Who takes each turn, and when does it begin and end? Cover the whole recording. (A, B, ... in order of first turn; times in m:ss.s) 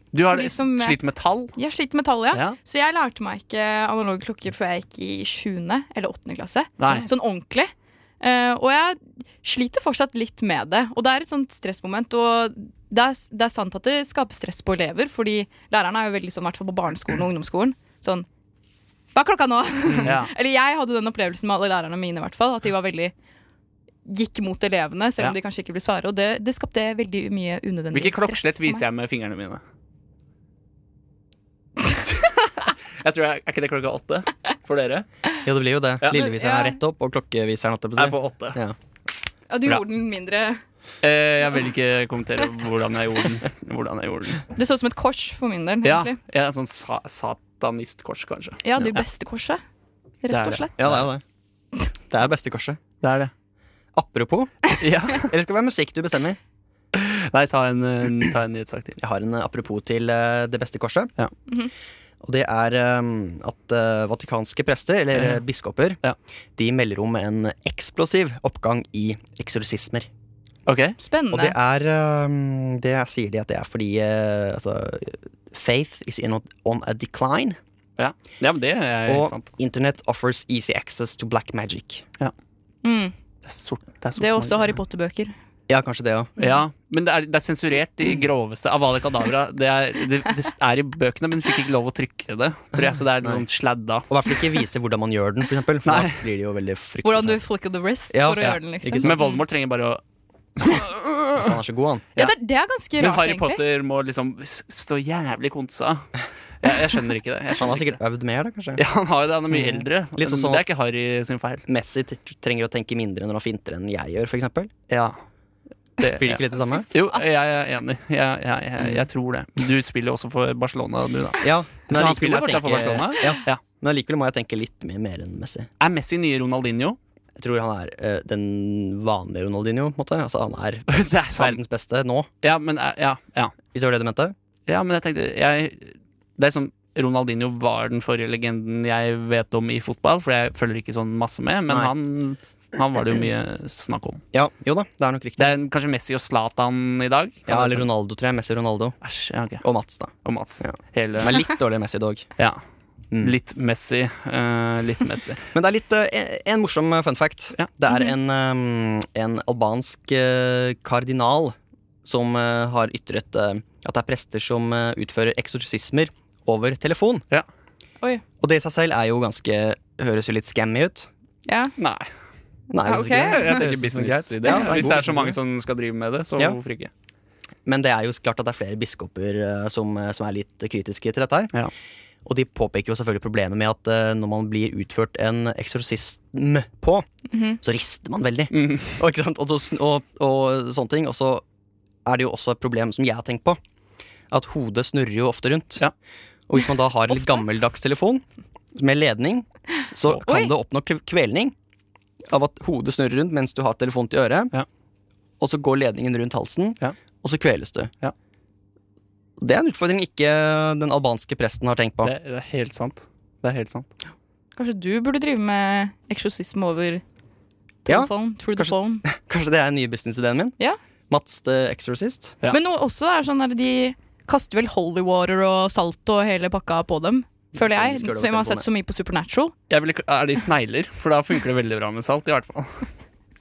0:00.1-0:01.6 A
0:00.3-0:01.0 B
0:01.6-0:18.3 B
0:06.8-0:07.1 A
0:19.2-0:23.1 B
0:20.0-0:20.3 A
0:24.1-0:28.8 B
0:27.9-0:29.6 A
0:32.2-0:35.1 A
0:35.4-0:38.8 C
0:36.1-0:36.8 B
0:38.0-0:38.6 A
0:39.5-0:40.6 B
0:41.0-0:44.4 A
0:44.6-0:46.2 B
0:45.8-0:48.8 A
0:48.6-0:49.6 B
0:50.2-0:50.7 B
0:50.3-0:51.1 A
0:50.8-0:51.2 C
0:52.1-0:52.8 C
0:53.0-0:53.3 A
0:54.0-0:56.4 C
0:54.8-0:55.3 A
0:56.9-0:59.0 A
0:59.0-1:01.1 C
1:02.2-1:06.0 C
1:05.1-1:05.4 A
1:06.6-1:10.1 C
1:10.7-1:11.0 A
1:11.0-1:11.6 B
1:11.3-1:17.6 C
1:18.0-1:19.5 A
1:19.1-1:22.0 C
1:22.8-1:23.1 B
1:23.4-1:24.8 A
1:24.2-1:25.3 B
1:25.7-1:26.3 C
1:26.4-1:34.1 A
1:32.7-1:33.4 C
1:34.1-1:37.4 C
1:35.8-1:36.2 A
1:37.0-1:39.4 B
1:38.1-1:39.2 C
1:39.0-1:40.0 A
1:40.6-1:41.6 A
1:41.4-1:42.1 C
1:42.2-1:43.6 B
1:43.0-1:46.1 A
1:46.6-1:48.0 A
1:47.5-1:48.8 C
1:48.8-1:51.6 A
1:49.5-1:50.6 C
1:51.7-1:54.7 C
1:54.9-1:55.2 A
1:56.0-2:03.6 A
1:56.2-1:56.9 C
1:58.8-1:59.1 C
2:01.4-2:05.7 C
2:05.8-2:07.0 A
2:07.4-2:12.3 C
2:10.9-2:11.6 A
2:12.4-2:13.6 A
2:13.7-2:14.4 C
2:14.7-2:24.2 A
2:24.3-2:25.6 C
2:25.4-2:27.9 A
2:27.5-2:29.0 C
2:29.0-2:29.6 A
2:29.6-2:32.3 C
2:30.2-2:31.4 A
2:33.2-2:35.4 A
2:35.5-2:47.2 C
2:48.4-2:51.1 C
2:51.5-2:51.7 B
2:51.8-2:52.1 A
2:52.7-2:55.4 C
2:52.8-2:53.6 B
2:53.0-2:56.9 A
2:54.4-2:54.8 B
2:57.6-3:01.5 C
3:02.2-3:07.1 C
3:07.3-3:07.6 B
3:07.6-3:11.4 C
3:08.5-3:09.0 A
3:12.0-3:13.6 C
3:14.3-3:15.8 C
3:16.5-3:18.2 C
3:17.1-3:17.4 B
3:18.8-3:21.5 C
3:20.0-3:20.3 A
3:20.3-3:20.5 B
3:22.3-3:24.5 C
3:25.4-3:27.9 C
3:29.4-3:32.1 C
3:32.0-3:33.9 A
3:34.6-3:37.0 B
3:37.9-3:39.0 B
3:37.9-3:40.6 C
3:41.1-3:42.4 C
3:42.5-3:49.5 B
3:47.5-3:48.7 C
3:49.7-3:52.9 A